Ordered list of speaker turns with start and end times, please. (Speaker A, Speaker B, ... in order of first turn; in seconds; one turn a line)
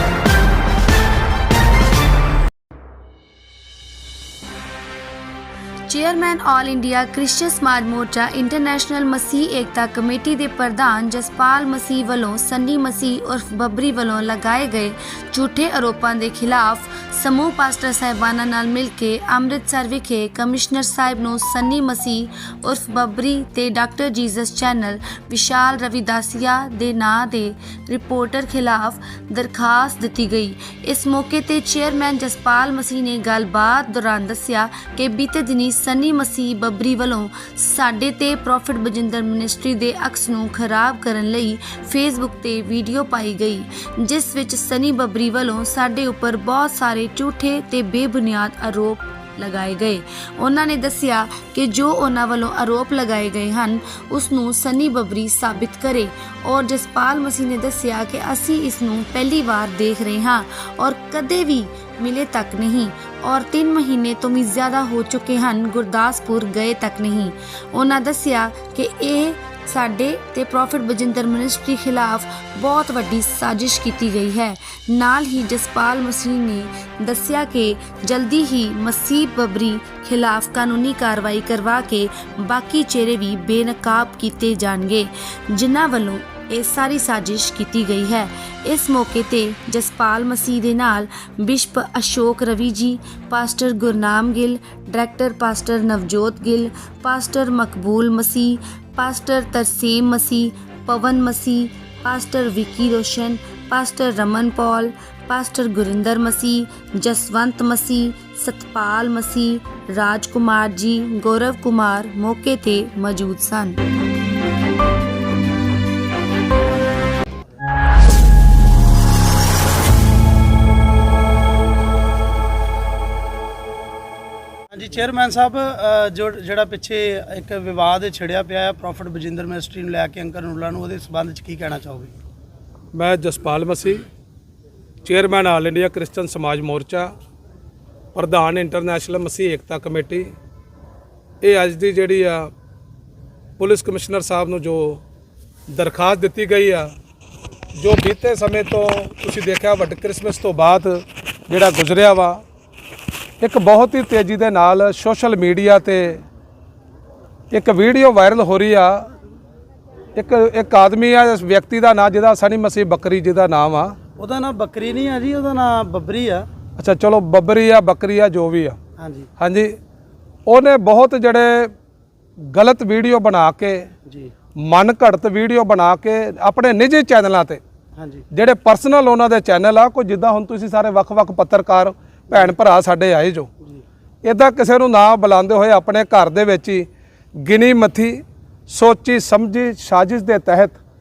Speaker A: 5.9-113.8
Speaker B: 124.7-132.1
Speaker C: 132.9-134.0
Speaker C: 135.0-137.1
Speaker C: 138.1-140.3
Speaker C: 141.4-142.5
Speaker C: 143.6-145.0
Speaker C: 145.7-146.9
Speaker C: 147.8-152.4
Speaker C: 153.4-156.2
Speaker C: 157.5-159.1
Speaker C: 160.2-163.9
Speaker B: 164.2-166.5
Speaker C: 166.8-168.8
Speaker B: 169.0-169.3
Speaker C: 169.4-169.7
Speaker C: 170.5-171.7
Speaker C: 172.5-173.9
Speaker B: 174.1-174.3
Speaker C: 174.6-177.6
Speaker B: 178.0-178.2
Speaker C: 178.3-183.5
Speaker C: 184.2-186.9
Speaker C: 187.4-190.8